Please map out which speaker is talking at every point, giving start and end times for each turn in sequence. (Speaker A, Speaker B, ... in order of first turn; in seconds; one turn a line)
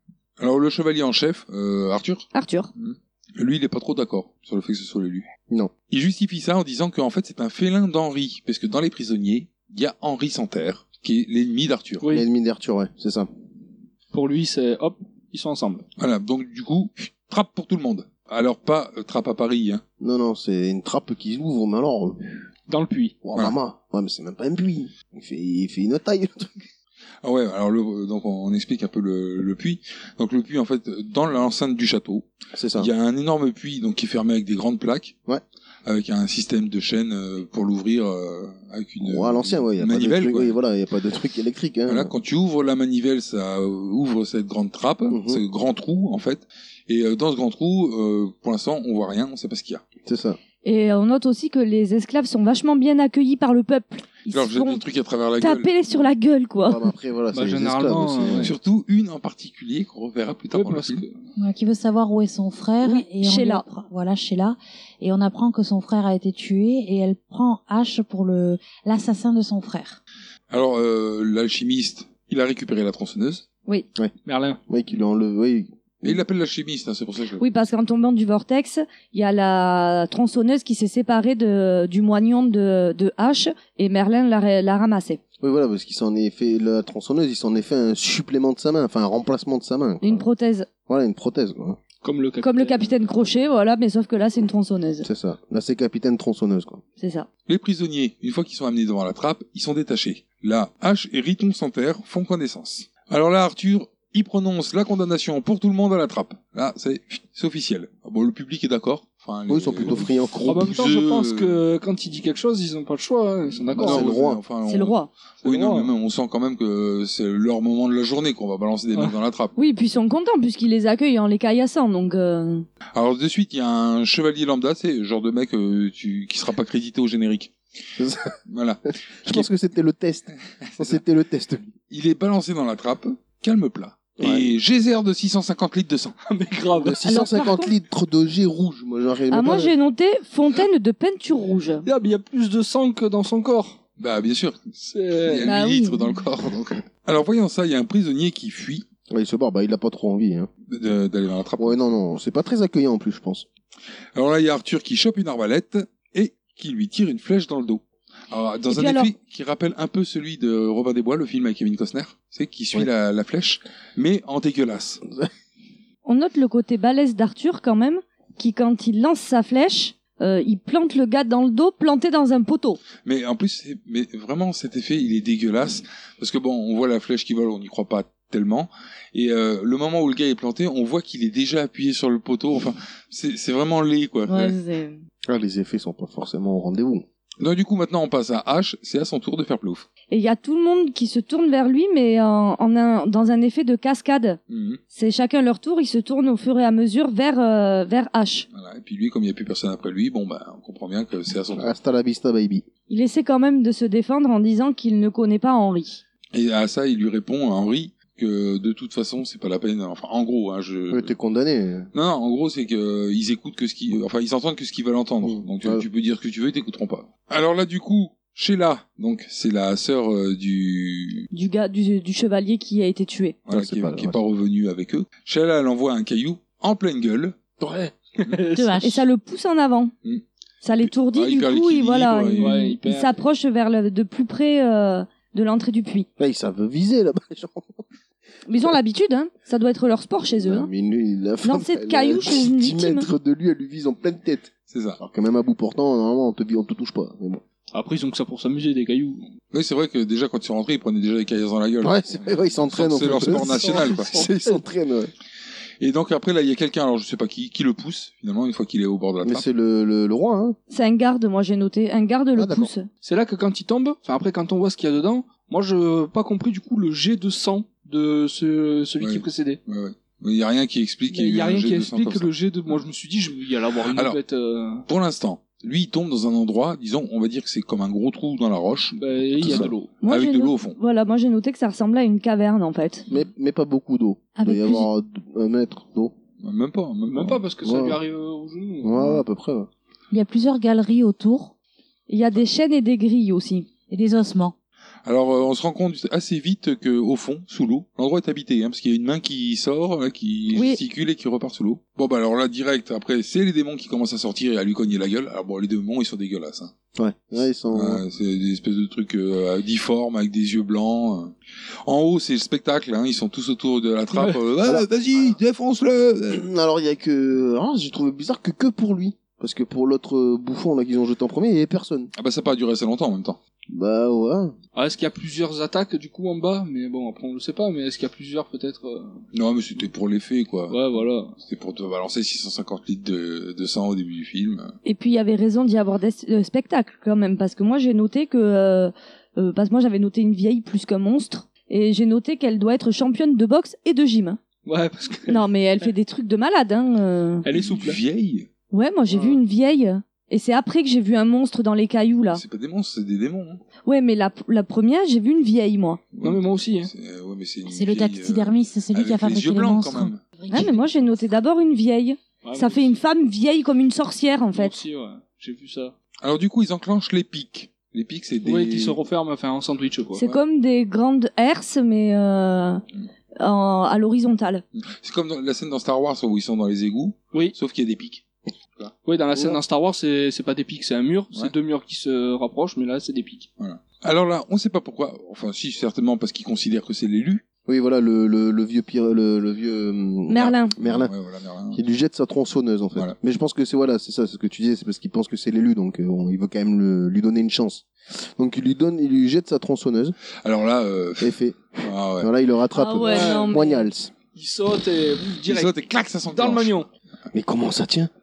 Speaker A: 0.4-5.2
Speaker B: 2.3-2.7
Speaker A: 5.9-12.0
Speaker C: 12.0-12.3
Speaker D: 12.1-13.3
Speaker C: 14.1-15.8
Speaker A: 16.0-19.8
Speaker D: 20.0-22.4
Speaker C: 22.7-23.1
Speaker D: 23.2-26.7
Speaker A: 27.2-35.1
Speaker D: 32.5-32.9
Speaker A: 35.9-40.6
Speaker D: 39.0-42.1
Speaker A: 41.9-49.8
Speaker D: 45.1-45.4
Speaker D: 50.0-50.4
Speaker B: 50.6-54.8
Speaker A: 54.3-55.7
Speaker B: 55.4-56.8
Speaker D: 56.6-58.5
Speaker C: 57.3-58.5
Speaker A: 58.4-61.0
Speaker C: 60.5-61.1
Speaker E: 61.4-70.0
Speaker B: 62.8-63.7
Speaker A: 70.5-73.4
Speaker C: 74.2-74.6
Speaker D: 74.7-76.2
Speaker A: 76.0-77.4
Speaker B: 77.4-85.2
Speaker D: 85.4-90.2
Speaker B: 90.0-90.7
Speaker D: 90.9-91.8
Speaker C: 92.0-92.9
Speaker B: 92.4-95.1
Speaker D: 95.0-96.8
Speaker B: 97.0-97.3
Speaker A: 97.5-111.6
Speaker D: 109.5-110.4
Speaker C: 110.4-114.1
Speaker A: 113.7-119.5
Speaker D: 113.7-114.4
Speaker B: 114.6-115.1
Speaker C: 115.4-115.9
Speaker B: 119.5-122.7
Speaker A: 122.9-127.5
Speaker D: 128.0-128.3
Speaker A: 128.5-129.5
Speaker D: 129.2-131.7
Speaker A: 130.6-131.0
Speaker A: 131.9-136.1
Speaker D: 134.2-134.4
Speaker C: 136.2-137.2
Speaker D: 136.7-139.8
Speaker B: 137.1-137.7
Speaker B: 139.3-141.8
Speaker C: 141.8-143.8
Speaker A: 144.0-144.7
Speaker C: 144.8-145.5
Speaker A: 145.2-148.8
Speaker B: 145.4-146.1
Speaker D: 149.1-150.5
Speaker A: 150.7-152.0
Speaker D: 151.6-153.4
Speaker A: 154.1-165.0
Speaker B: 158.7-159.1
Speaker B: 166.0-172.8
Speaker A: 173.0-184.6
Speaker E: 184.3-185.0
Speaker D: 185.3-187.1
Speaker A: 187.4-189.8
Speaker B: 190.1-194.4
Speaker A: 194.5-194.8
Speaker B: 194.9-198.5
Speaker A: 198.5-201.7
Speaker D: 201.6-202.6
Speaker B: 202.9-206.0
Speaker A: 206.3-211.1
Speaker D: 210.9-211.9
Speaker A: 211.9-221.3
Speaker D: 215.2-215.8
Speaker B: 221.3-223.4
Speaker A: 223.4-227.9
Speaker D: 223.5-224.2
Speaker C: 228.2-228.8
Speaker E: 228.5-229.0
Speaker B: 228.8-229.9
Speaker B: 230.6-236.1
Speaker A: 230.8-232.6
Speaker C: 232.4-233.2
Speaker D: 236.2-237.8
Speaker B: 238.5-240.7
Speaker D: 240.4-247.4
Speaker B: 241.4-243.1
Speaker A: 244.7-245.0
Speaker C: 247.7-249.3
Speaker A: 249.5-252.0
Speaker D: 251.8-255.1
Speaker A: 252.6-254.1
Speaker C: 253.0-254.6
Speaker A: 255.8-259.4
Speaker D: 259.2-260.6
Speaker B: 260.7-262.9
Speaker D: 262.3-262.7
Speaker C: 263.0-269.6
Speaker A: 269.0-272.3
Speaker C: 271.1-274.9
Speaker A: 273.9-274.2
Speaker A: 274.9-280.8
Speaker C: 278.9-279.9
Speaker D: 279.4-279.7
Speaker B: 280.0-283.1
Speaker D: 283.1-286.1
Speaker E: 284.4-284.9
Speaker A: 286.4-287.4
Speaker C: 287.1-289.1
Speaker D: 287.6-288.0
Speaker D: 288.8-289.7
Speaker E: 290.1-291.5
Speaker B: 292.1-293.7
Speaker E: 293.9-294.5
Speaker A: 295.0-306.7
Speaker B: 300.5-300.8
Speaker D: 306.9-308.0
Speaker A: 307.7-311.3
Speaker A: 311.8-316.5
Speaker C: 314.1-314.4
Speaker D: 316.3-322.1
Speaker A: 322.1-323.4
Speaker D: 323.7-324.6
Speaker C: 324.7-329.2
Speaker A: 329.3-330.8
Speaker C: 330.7-331.3
Speaker A: 331.4-334.7
Speaker B: 334.8-344.4
Speaker C: 344.6-345.9
Speaker B: 345.3-347.4
Speaker C: 347.4-348.0
Speaker A: 347.5-348.5
Speaker B: 348.7-352.4
Speaker A: 352.3-353.6
Speaker B: 353.9-356.0
Speaker A: 356.1-360.2
Speaker C: 356.2-356.9
Speaker E: 357.6-360.9
Speaker B: 360.5-364.7
Speaker C: 362.4-363.0
Speaker C: 364.5-365.9
Speaker A: 366.2-369.0
Speaker C: 368.4-370.2
Speaker B: 370.2-372.8
Speaker B: 373.4-374.6
Speaker A: 374.7-378.2
Speaker C: 379.0-383.5
Speaker A: 383.6-387.4
Speaker D: 387.6-391.1
Speaker B: 390.3-390.7
Speaker A: 390.8-391.8
Speaker D: 391.7-400.1
Speaker A: 400.4-402.3
Speaker D: 401.2-404.1
Speaker B: 402.7-403.9
Speaker C: 403.1-403.6
Speaker C: 404.3-405.7
Speaker A: 405.4-406.8
Speaker C: 406.3-406.9
Speaker D: 407.3-408.1